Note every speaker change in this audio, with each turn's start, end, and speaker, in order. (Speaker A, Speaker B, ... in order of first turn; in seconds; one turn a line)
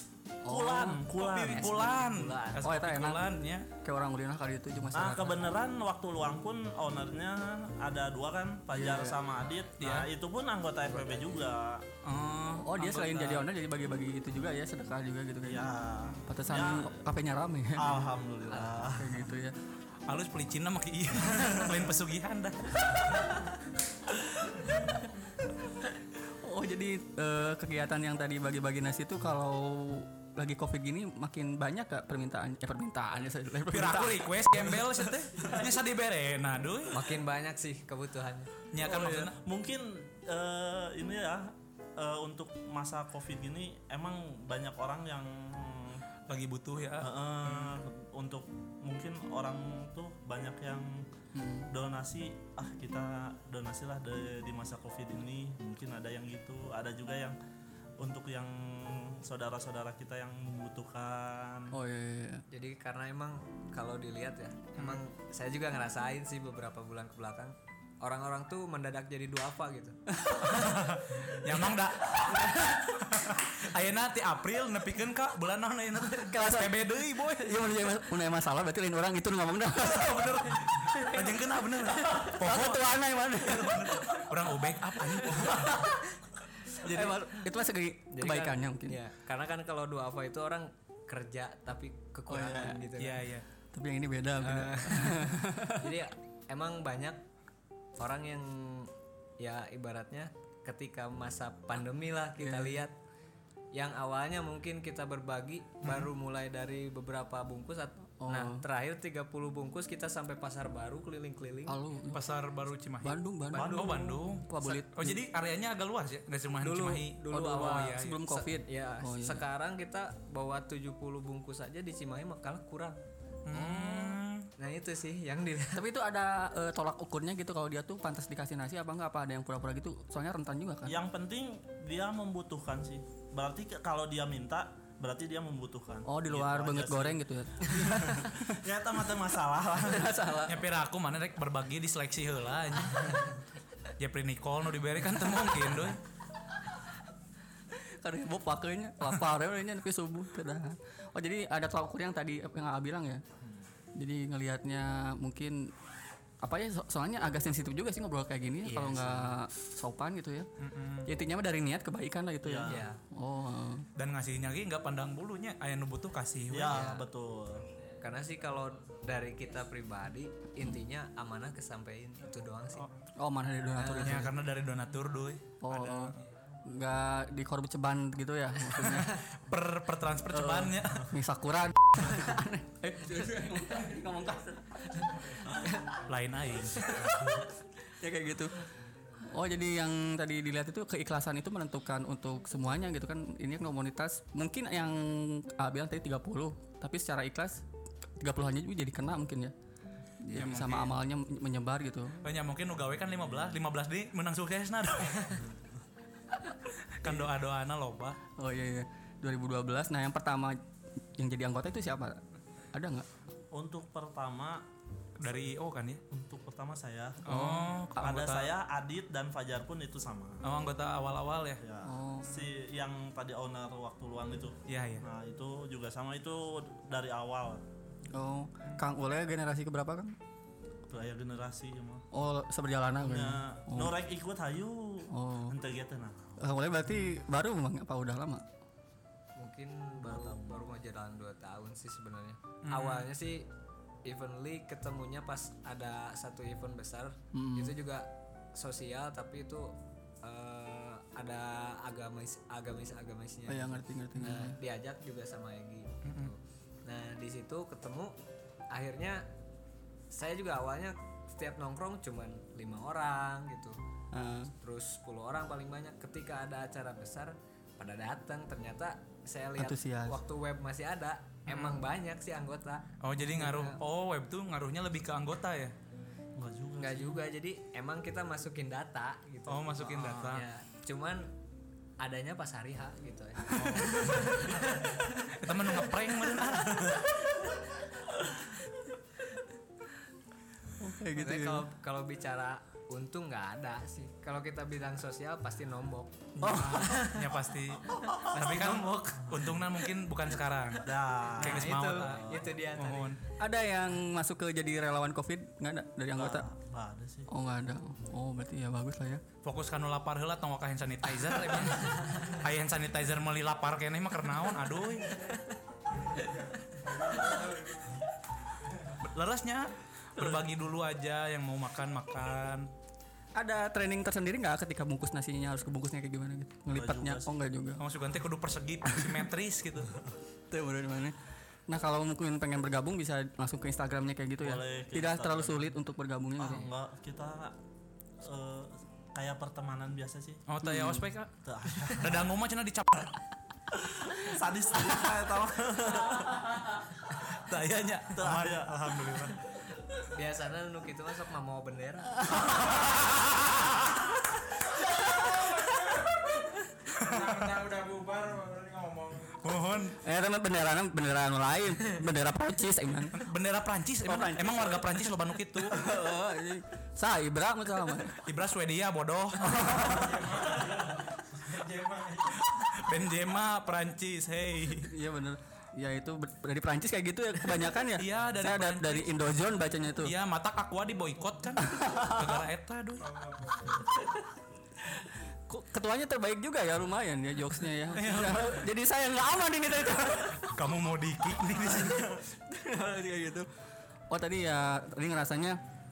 Speaker A: 0.5-1.0
Speaker B: 0.5-1.9
Speaker C: 1.2-3.7
Speaker D: 1.4-2.6
Speaker A: 2.6-5.5
Speaker B: 4.9-11.8
Speaker A: 8.7-9.2
Speaker C: 9.8-10.1
Speaker D: 10.8-11.3
Speaker C: 12.0-13.5
Speaker A: 12.6-15.7
Speaker B: 15.4-16.9
Speaker A: 16.3-18.1
Speaker B: 17.8-19.2
Speaker D: 18.5-18.8
Speaker A: 19.0-19.6
Speaker C: 20.1-23.2
Speaker A: 25.9-34.7
Speaker C: 33.7-37.0
Speaker D: 36.9-38.5
Speaker C: 38.7-39.4
Speaker B: 38.8-46.0
Speaker C: 46.3-47.8
Speaker B: 47.0-51.1
Speaker A: 51.3-51.7
Speaker B: 51.7-57.4
Speaker B: 58.0-61.8
Speaker A: 61.7-62.4
Speaker D: 62.5-70.0
Speaker A: 70.1-70.8
Speaker C: 70.5-77.7
Speaker A: 76.3-81.3
Speaker C: 79.8-85.8
Speaker A: 82.0-84.4
Speaker A: 85.2-86.0
Speaker A: 86.8-89.0
Speaker D: 86.8-87.4
Speaker D: 88.1-93.2
Speaker A: 92.3-92.9
Speaker C: 93.0-93.5
Speaker A: 93.7-96.0
Speaker D: 94.4-95.2
Speaker D: 95.8-97.2
Speaker D: 98.0-103.0
Speaker A: 102.4-102.8
Speaker D: 103.7-111.8
Speaker C: 105.8-106.1
Speaker A: 108.2-108.6
Speaker A: 111.7-112.3
Speaker C: 112.1-117.8
Speaker A: 113.0-115.2
Speaker B: 113.5-114.2
Speaker D: 116.6-123.0
Speaker A: 117.3-119.4
Speaker C: 123.5-124.5
Speaker D: 123.5-125.8
Speaker A: 125.7-131.0
Speaker B: 130.9-140.4
Speaker A: 136.1-138.5
Speaker A: 139.8-140.7
Speaker C: 140.5-143.3
Speaker C: 144.0-146.0
Speaker A: 147.7-153.2
Speaker A: 153.9-155.7
Speaker A: 156.4-160.5
Speaker D: 158.7-159.3
Speaker C: 160.6-161.1
Speaker A: 161.1-163.9
Speaker B: 162.4-162.8
Speaker D: 162.7-163.0
Speaker C: 164.0-166.9
Speaker B: 166.5-167.7
Speaker D: 166.7-167.1
Speaker D: 168.0-172.9
Speaker A: 173.2-174.3
Speaker D: 173.8-174.2
Speaker C: 174.0-176.1
Speaker A: 175.6-179.2
Speaker C: 179.3-181.1
Speaker A: 180.3-185.7
Speaker D: 185.6-186.0
Speaker C: 186.1-187.0
Speaker A: 186.8-188.7
Speaker A: 189.2-197.7
Speaker A: 198.2-199.5
Speaker A: 200.2-202.2
Speaker C: 200.3-201.0
Speaker C: 202.2-205.5
Speaker B: 205.3-205.8
Speaker C: 206.9-208.2
Speaker A: 208.4-210.6
Speaker A: 211.2-212.2
Speaker A: 212.7-213.1
Speaker B: 213.5-214.6
Speaker C: 215.2-216.0
Speaker B: 216.1-217.2
Speaker C: 217.3-218.6
Speaker A: 217.3-217.8
Speaker B: 218.0-220.4
Speaker C: 220.4-221.6
Speaker B: 221.6-227.7
Speaker A: 221.8-222.3
Speaker C: 224.7-225.1
Speaker A: 228.1-230.2
Speaker B: 230.9-232.1
Speaker A: 232.1-234.0
Speaker B: 233.0-236.2
Speaker A: 235.1-235.6
Speaker A: 236.4-238.4
Speaker D: 239.4-243.5
Speaker B: 240.0-240.7
Speaker C: 242.7-243.1
Speaker D: 244.1-258.2
Speaker A: 247.3-247.8
Speaker A: 253.5-254.6
Speaker C: 256.1-256.3
Speaker D: 258.7-259.2
Speaker D: 260.1-263.8
Speaker A: 264.1-264.5
Speaker D: 264.6-273.8
Speaker A: 269.6-270.2
Speaker C: 271.5-271.8
Speaker C: 273.0-275.7
Speaker B: 276.4-277.2
Speaker D: 276.8-281.3
Speaker C: 279.5-280.4
Speaker B: 280.0-280.3
Speaker D: 282.0-285.1
Speaker C: 285.2-287.0
Speaker A: 290.8-291.6
Speaker D: 291.1-296.2
Speaker C: 296.4-303.2
Speaker A: 296.4-297.0
Speaker D: 296.8-297.2
Speaker D: 298.2-298.8
Speaker B: 298.4-299.6
Speaker B: 300.8-302.4
Speaker D: 301.4-303.1
Speaker A: 303.4-306.5
Speaker B: 306.1-307.3
Speaker A: 307.3-309.2
Speaker C: 309.4-315.3
Speaker D: 311.5-312.4
Speaker D: 315.3-315.6
Speaker E: 316.8-317.9
Speaker C: 318.9-322.7
Speaker A: 323.4-327.8
Speaker B: 326.7-327.3
Speaker C: 327.8-330.0
Speaker A: 328.9-329.2
Speaker A: 330.5-336.7
Speaker B: 334.4-335.6
Speaker B: 336.4-337.6
Speaker B: 338.2-340.4
Speaker C: 340.5-343.1
Speaker A: 340.6-341.1
Speaker B: 341.4-342.3
Speaker B: 343.8-346.5
Speaker C: 347.1-349.4
Speaker B: 348.1-349.2
Speaker D: 349.9-352.6
Speaker C: 352.6-353.8
Speaker E: 355.0-356.2
Speaker C: 356.9-357.4
Speaker E: 356.9-359.4
Speaker C: 359.4-360.0
Speaker A: 360.0-363.3
Speaker C: 363.1-365.8
Speaker A: 364.0-368.2
Speaker C: 368.2-370.1
Speaker A: 369.4-369.8
Speaker E: 369.8-372.4
Speaker C: 372.4-374.9
Speaker A: 374.9-380.1
Speaker C: 377.9-379.4
Speaker C: 380.0-383.1
Speaker A: 381.8-382.1
Speaker E: 383.0-383.9
Speaker A: 384.8-390.6
Speaker C: 387.9-388.6
Speaker C: 390.4-392.1
Speaker A: 391.5-395.6